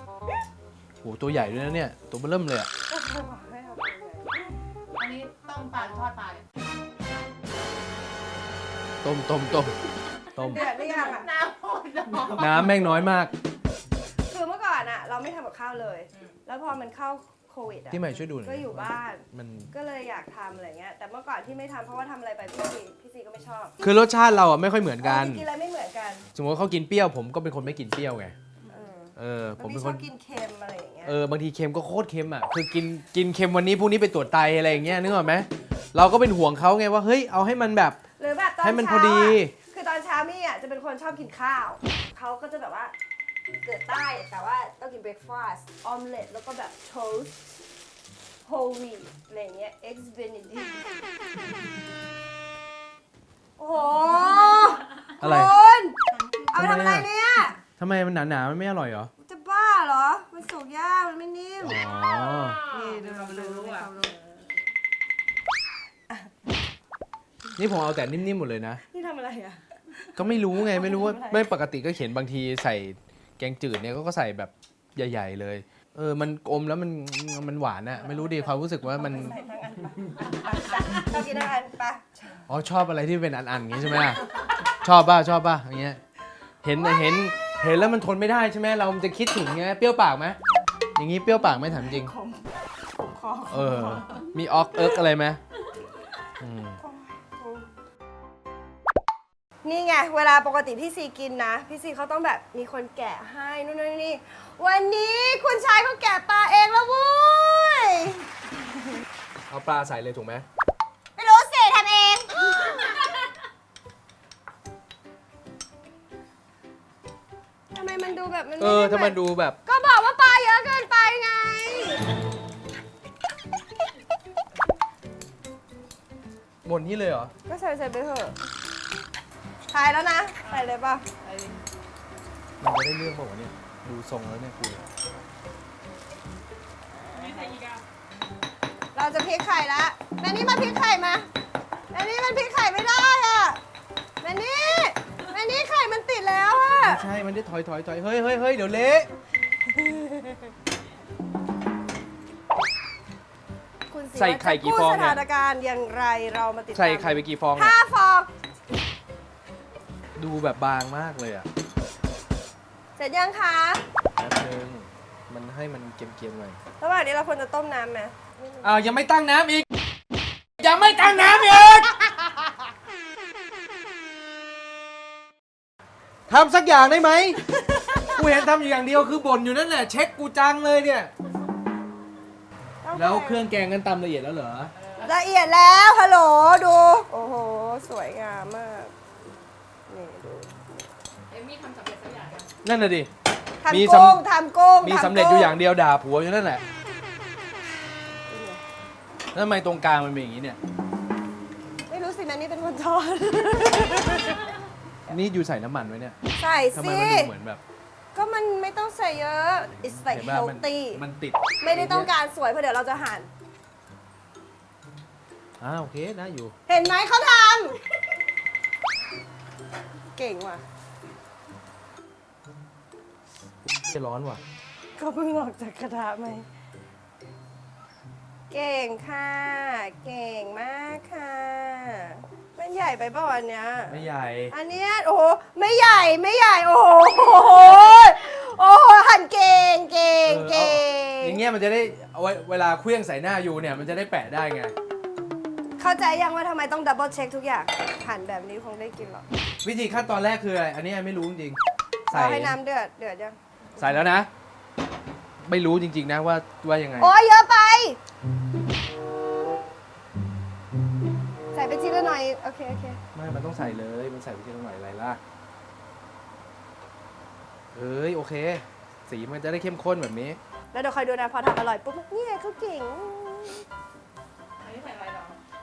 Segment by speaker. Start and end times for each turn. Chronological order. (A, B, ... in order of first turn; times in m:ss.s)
0:01.0-0:02.7 A
0:02.9-0:04.4 B
0:05.0-0:06.4 C
0:09.0-0:09.8 A
0:10.3-0:10.7 A
0:10.4-0:11.3 B
0:10.8-0:12.5 C
0:12.3-0:13.3 A
0:14.3-0:23.7 B
0:17.9-0:19.7 A
0:23.8-0:25.4 A
0:25.0-0:26.2 B
0:26.3-0:28.3 A
0:28.7-0:31.2 B
0:29.2-0:30.0 A
0:31.0-0:38.0 A
0:38.2-0:42.9 B
0:38.6-0:39.5 A
0:43.6-0:47.4 B
0:48.4-0:51.0 B
0:53.6-0:56.0 B
0:55.2-0:55.6 A
0:56.2-0:56.5 C
0:56.5-0:57.6 B
0:56.5-0:57.1 A
0:57.6-0:59.1 A
0:59.2-1:01.8 B
1:01.6-1:02.7 A
1:02.0-1:03.9 C
1:02.7-1:04.3 B
1:07.6-1:08.8 A
1:08.9-1:11.4 B
1:10.2-1:19.4 A
1:18.0-1:22.4 B
1:22.5-1:24.2 A
1:24.8-1:26.0 A
1:26.6-1:30.4 A
1:26.8-1:27.3 B
1:31.0-1:32.1 A
1:31.5-1:34.2 B
1:33.5-1:35.4 A
1:36.4-1:36.8 A
1:36.8-1:37.7 B
1:39.6-1:48.2 B
1:49.5-1:50.4 A
1:51.2-1:53.1 B
1:57.7-2:02.0 B
1:58.6-1:59.6 A
2:06.6-2:07.3 A
2:07.5-2:08.4 B
2:09.7-2:11.0 B
2:11.2-2:11.6 C
2:12.6-2:14.8 A
2:16.9-2:17.6 B
2:17.1-2:17.8 C
2:18.9-2:21.3 B
2:21.9-2:23.6 B
2:24.2-2:27.0 B
2:26.8-2:29.1 A
2:29.7-2:30.5 B
2:33.9-2:38.3 B
2:34.1-2:35.2 A
2:36.7-2:37.7 A
2:40.2-2:41.5 A
2:43.0-2:43.8 B
2:44.2-2:46.6 A
2:46.8-2:48.7 B
2:48.6-2:49.6 A
2:50.6-2:52.1 A
2:56.3-3:01.1 A
3:02.8-3:03.5 B
3:02.9-3:04.7 A
3:04.8-3:05.1 C
3:05.0-3:08.9 B
3:09.9-3:10.8 B
3:11.3-3:12.5 C
3:12.6-3:13.1 A
3:13.6-3:15.6 B
3:13.7-3:14.2 A
3:14.8-3:16.6 A
3:18.2-3:18.6 B
3:19.3-3:20.6 A
3:21.9-3:24.4 B
3:25.1-3:26.2 A
3:26.4-3:27.3 B
3:26.7-3:27.6 A
3:28.1-3:31.0 B
3:29.8-3:32.1 A
3:31.6-3:33.3 B
3:35.6-3:36.5 A
3:36.7-3:37.8 B
3:40.1-3:40.6 B
3:43.6-3:44.4 A
3:45.0-3:46.4 B
3:48.5-4:01.4 B
3:53.9-3:54.5 A
4:00.2-4:04.7 A
4:05.8-4:09.2 B
4:09.6-4:11.6 A
4:12.1-4:13.4 B
4:12.1-4:12.6 A
4:13.8-4:14.3 A
4:15.4-4:17.1 A
4:17.0-4:18.0 B
4:21.5-4:23.0 B
4:23.1-4:25.2 A
4:27.7-4:30.4 A
4:30.7-4:33.6 B
4:34.6-4:35.4 C